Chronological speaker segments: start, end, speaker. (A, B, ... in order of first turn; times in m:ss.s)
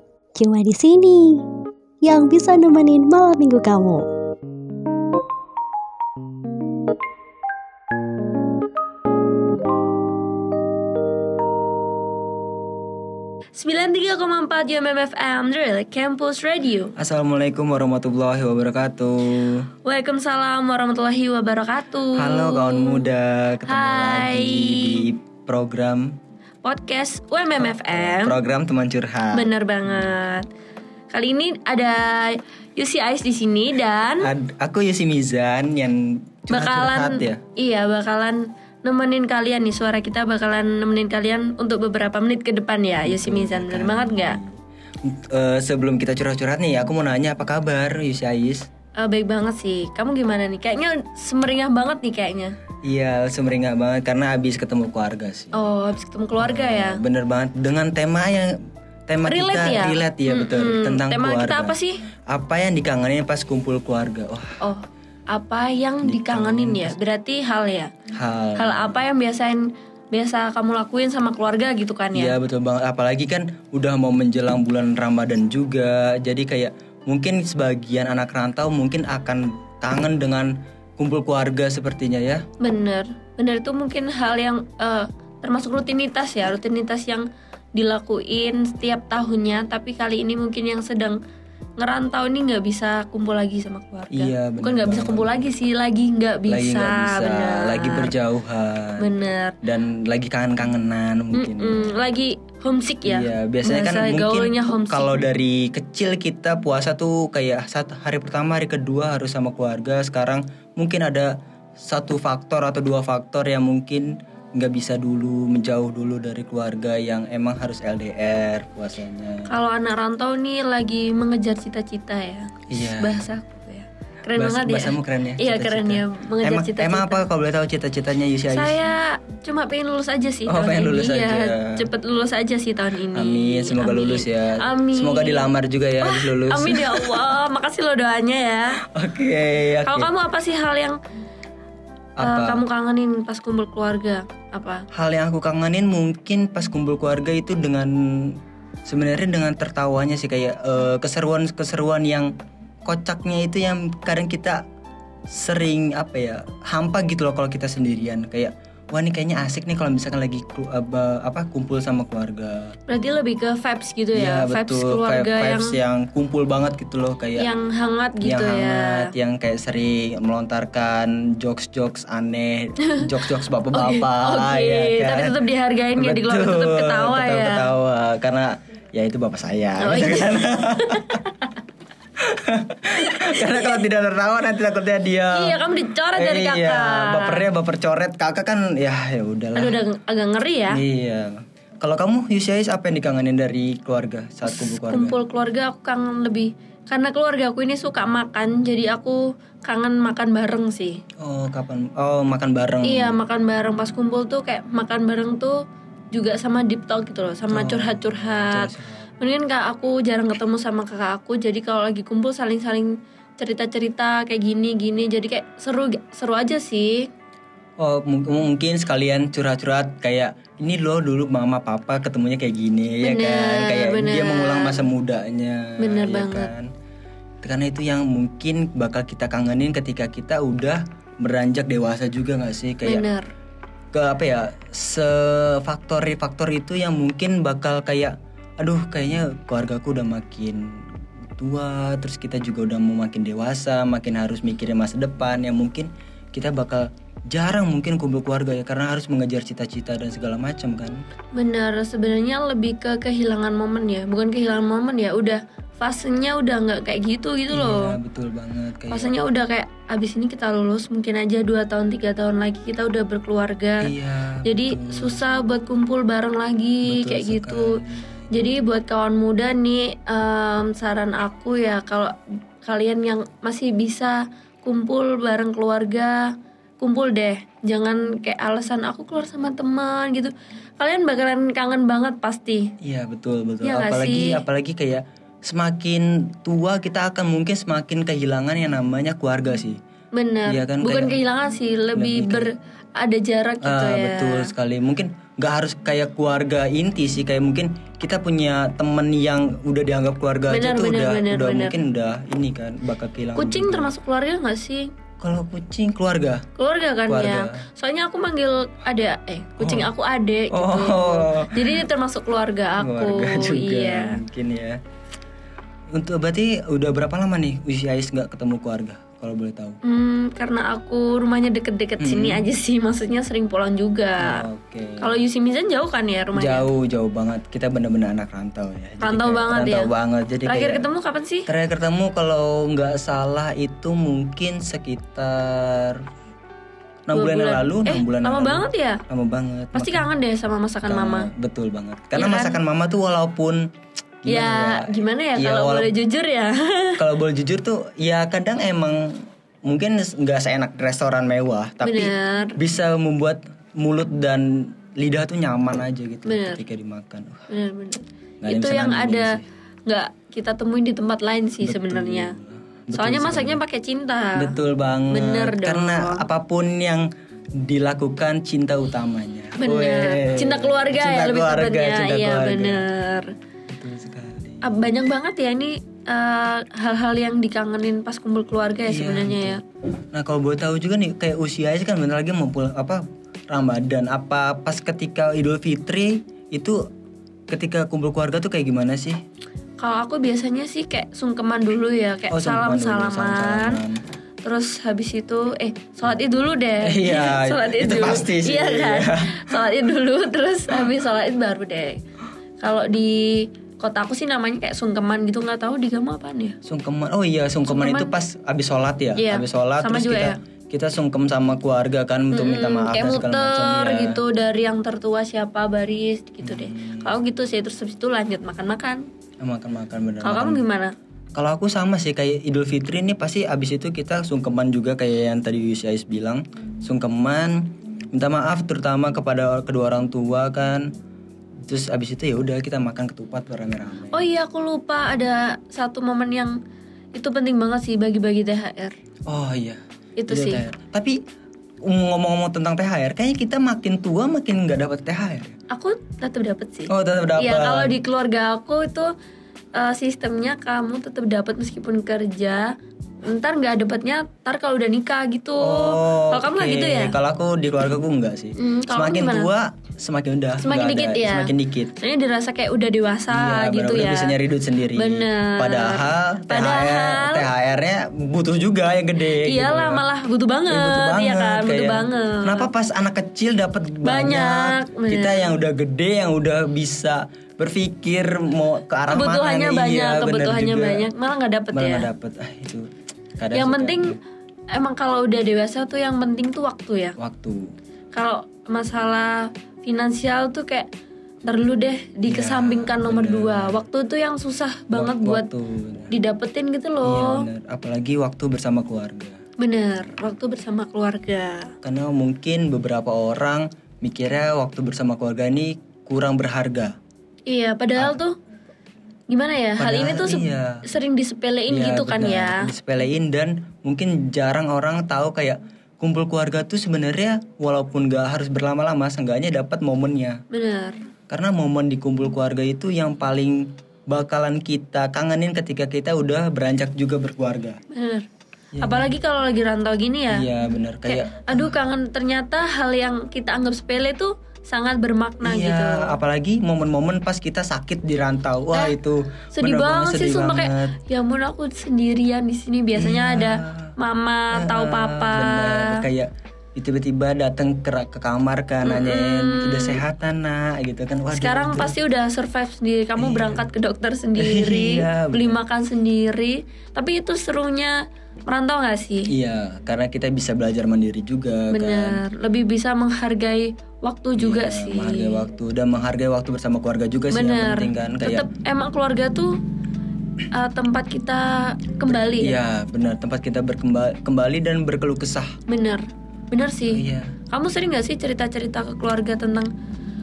0:00.3-0:01.4 A
0:02.0-0:04.1 A
0:13.6-0:16.9 B
0:17.0-0:19.7 C
0:19.8-0:23.1 B
0:22.1-0:26.2 C
0:23.6-0:25.1 B
0:26.6-0:28.4 B
0:27.6-0:30.0 C
0:29.3-0:30.4 B
0:31.1-0:34.3 B
0:34.2-0:37.4 C
0:36.5-0:44.4 B
0:43.0-0:48.7 C
0:49.0-0:52.5 B
0:52.8-0:55.7 C
0:55.5-0:57.0 B
0:56.4-0:58.5 C
0:59.1-1:01.8 C
0:59.2-1:02.0 B
1:02.3-1:04.6 C
1:04.6-1:07.9 B
1:06.0-1:07.0 C
1:08.1-1:09.0 C
1:08.6-1:12.4 B
1:12.1-1:22.4 C
1:22.6-1:31.2 B
1:31.8-1:38.1 B
1:34.1-1:35.5 C
1:36.5-1:39.1 C
1:39.0-1:39.6 B
1:39.6-1:42.0 C
1:41.3-1:45.2 B
1:43.0-1:59.6 C
1:59.5-2:07.3 B
2:02.7-2:03.3 C
2:04.3-2:08.8 C
2:08.5-2:18.8 B
2:10.4-2:11.9 C
2:13.1-2:17.4 C
2:18.8-2:20.1 C
2:19.8-2:21.0 B
2:22.2-2:22.6 C
2:22.2-2:24.8 B
2:24.9-2:32.3 C
2:32.8-2:34.6 C
2:35.3-2:42.7 C
2:42.9-2:45.8 B
2:44.1-2:47.5 C
2:47.4-2:49.1 B
2:48.2-2:55.4 C
2:52.8-2:53.1 B
2:53.7-2:57.7 B
2:56.0-3:01.2 C
2:59.8-3:01.3 B
3:02.2-3:05.6 C
3:03.1-3:03.8 B
3:05.3-3:07.5 B
3:06.1-3:09.8 C
3:09.5-3:10.8 B
3:10.7-3:15.2 C
3:14.4-3:21.0 B
3:21.2-3:23.2 C
3:22.8-3:25.6 B
3:26.1-3:37.1 B
3:27.5-3:29.1 C
3:37.8-3:46.7 C
3:43.0-3:44.8 B
3:45.8-3:46.5 B
3:47.4-3:53.0 C
3:52.8-3:53.3 B
3:53.9-4:11.0 C
4:11.3-4:18.0 B
4:17.5-4:19.2 C
4:18.9-4:23.9 B
4:23.8-4:25.2 C
4:24.4-4:27.8 B
4:26.8-4:28.6 C
4:28.3-4:42.7 B
4:42.8-4:49.8 C
4:43.6-4:44.4 B
4:50.1-4:54.5 B
4:50.4-4:51.2 C
4:51.9-4:52.5 C
4:53.6-5:03.9 C
5:00.5-5:01.8 B
5:03.3-5:04.9 B
5:05.2-5:06.4 C
5:06.6-5:14.2 B
5:07.0-5:07.6 C
5:09.6-5:09.9 C
5:10.5-5:11.8 C
5:12.8-5:14.8 C
5:15.9-5:19.8 C
5:19.8-5:24.4 B
5:22.0-5:22.4 C
5:24.2-5:25.2 C
5:25.0-5:26.7 B
5:26.3-5:30.9 C
5:29.0-5:29.9 B
5:30.4-5:31.5 B
5:31.4-5:36.0 C
5:37.1-5:40.1 C
5:37.1-5:39.0 B
5:39.7-5:41.3 B
5:40.8-5:43.6 C
5:42.1-5:42.6 B
5:44.2-5:45.9 C
5:44.3-5:47.0 B
5:47.0-5:57.5 C
5:51.8-5:52.6 B
5:56.2-5:56.6 B
5:57.5-6:02.4 B
5:58.4-5:59.4 C
6:01.6-6:03.6 C
6:02.9-6:04.6 B
6:04.3-6:12.8 C
6:05.1-6:06.2 B
6:09.6-6:13.3 B
6:13.7-6:14.7 C
6:14.6-6:19.6 B
6:18.9-6:19.6 C
6:20.1-6:26.8 C
6:27.5-6:29.2 C
6:29.8-6:33.8 B
6:32.3-6:34.0 C
6:34.4-6:42.0 B
6:36.8-6:39.6 C
6:42.6-6:46.6 B
6:46.6-6:54.2 C
6:47.6-6:48.1 B
6:49.2-6:50.4 B
6:52.3-6:59.0 B
6:56.4-6:57.2 C
6:59.4-7:00.6 C
7:00.2-7:00.9 B
7:01.3-7:10.9 C
7:11.7-7:14.3 C
7:14.1-7:16.6 B
7:17.1-7:18.9 B
7:19.3-7:21.2 C
7:20.2-7:20.6 B
7:21.8-7:25.5 C
7:25.7-7:29.1 B
7:26.9-7:28.0 C
7:29.7-7:37.2 B
7:35.6-7:41.9 C
7:38.6-7:39.5 B
7:40.6-7:44.4 B
7:43.3-7:50.0 C
7:44.9-7:47.5 B
7:49.3-7:52.7 B
7:50.7-8:01.1 C
7:54.0-7:55.5 B
7:59.1-8:02.1 B
8:01.7-8:04.2 C
8:03.5-8:04.2 B
8:04.7-8:07.2 B
8:07.2-8:07.7 C
8:08.1-8:10.9 B
8:11.4-8:15.5 B
8:12.3-8:13.8 C
8:14.9-8:16.1 C
8:16.1-8:17.4 B
8:17.0-8:19.4 C
8:19.6-8:21.7 B
8:21.8-8:26.9 C
8:27.5-8:28.4 B
8:29.3-8:32.7 B
8:29.8-8:30.8 C
8:31.7-8:40.4 C
8:40.5-8:41.0 B
8:41.3-8:47.8 C
8:47.9-8:48.2 B
8:48.7-8:49.2 C
8:48.8-8:50.5 B
8:50.3-8:51.8 C
8:51.1-8:56.2 B
8:55.4-9:01.0 C
8:59.5-9:06.0 B
9:02.9-9:03.9 C
9:04.5-9:12.0 C
9:08.8-9:10.0 B
9:11.3-9:18.0 B
9:13.2-9:13.7 C
9:14.4-9:15.6 C
9:18.5-9:19.3 B
9:19.3-9:22.2 C
9:21.7-9:25.4 B
9:24.4-9:28.5 C
9:27.3-9:29.6 B
9:30.5-9:32.6 B
9:32.0-9:35.5 C
9:35.7-9:39.7 B
9:36.9-9:37.4 C